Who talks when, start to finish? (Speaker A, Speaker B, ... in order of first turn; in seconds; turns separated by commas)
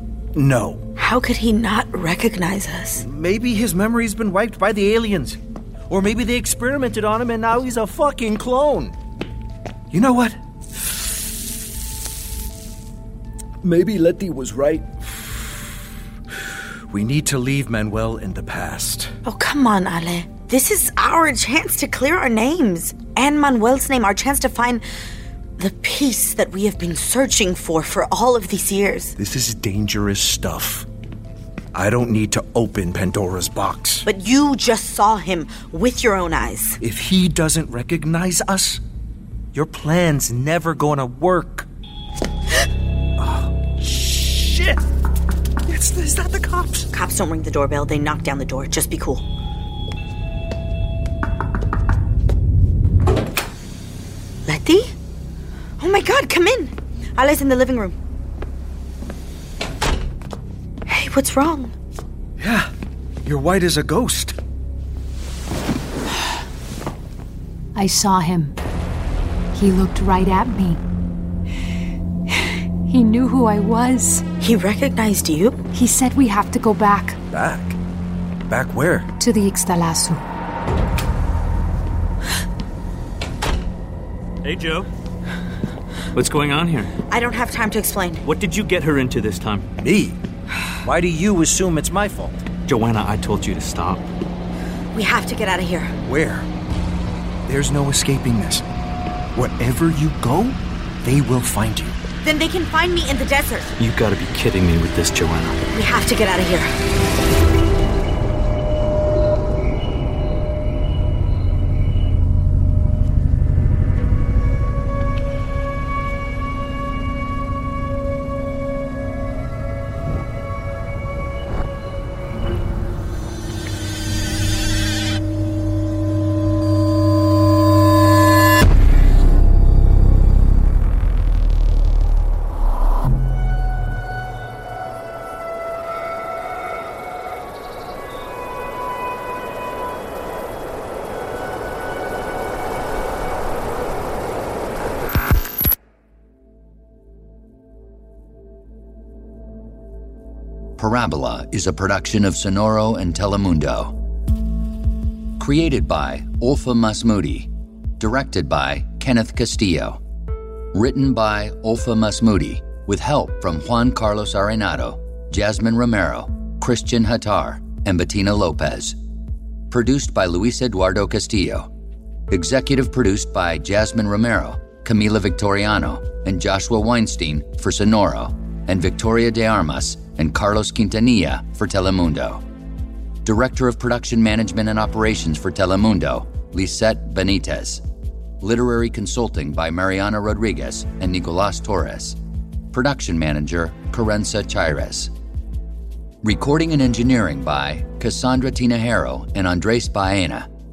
Speaker A: 0.3-0.8, Speaker B: 1.0-3.0, Speaker A: 3.0-9.0, Speaker A: 9.9-11.2, Speaker A: 13.6-15.7, Speaker A: 16.9-19.1, Speaker B: 19.2-24.8, Speaker B: 25.6-29.2, Speaker A: 29.2-30.9, Speaker A: 31.7-34.1, Speaker B: 34.1-36.8, Speaker A: 36.8-38.8, Speaker A: 39.5-41.7, Speaker A: 43.2-44.8, Speaker A: 45.7-46.9, Speaker B: 46.9-49.2, Speaker B: 54.5-54.9, Speaker B: 55.8-58.0, Speaker B: 60.9-61.7, Speaker A: 62.4-62.7, Speaker A: 63.2-64.4, Speaker C: 67.8-68.5, Speaker C: 69.5-70.8, Speaker C: 72.3-74.2, Speaker B: 74.4-75.6, Speaker C: 75.7-77.2, Speaker A: 77.3-77.8, Speaker A: 78.5-79.1, Speaker C: 79.2-80.2, Speaker D: 84.4-84.9, Speaker D: 86.2-86.9, Speaker B: 87.1-88.2, Speaker D: 88.2-89.7, Speaker A: 89.8-90.2, Speaker A: 90.8-92.5, Speaker D: 92.7-94.1, Speaker B: 94.9-96.0, Speaker A: 96.0-96.5, Speaker A: 97.5-98.7, Speaker A: 99.3-102.0, Speaker B: 102.2-103.7, Speaker D: 103.8-105.6, Speaker B: 105.7-106.7, Speaker E: 150.8-153.9, Speaker E: 155.4-160.0, Speaker E: 160.7-169.0, Speaker E: 169.7-171.7, Speaker E: 172.3-182.4, Speaker E: 183.2-187.8, Speaker E: 188.4-192.2, Speaker E: 192.7-195.1, Speaker E: 196.2-200.5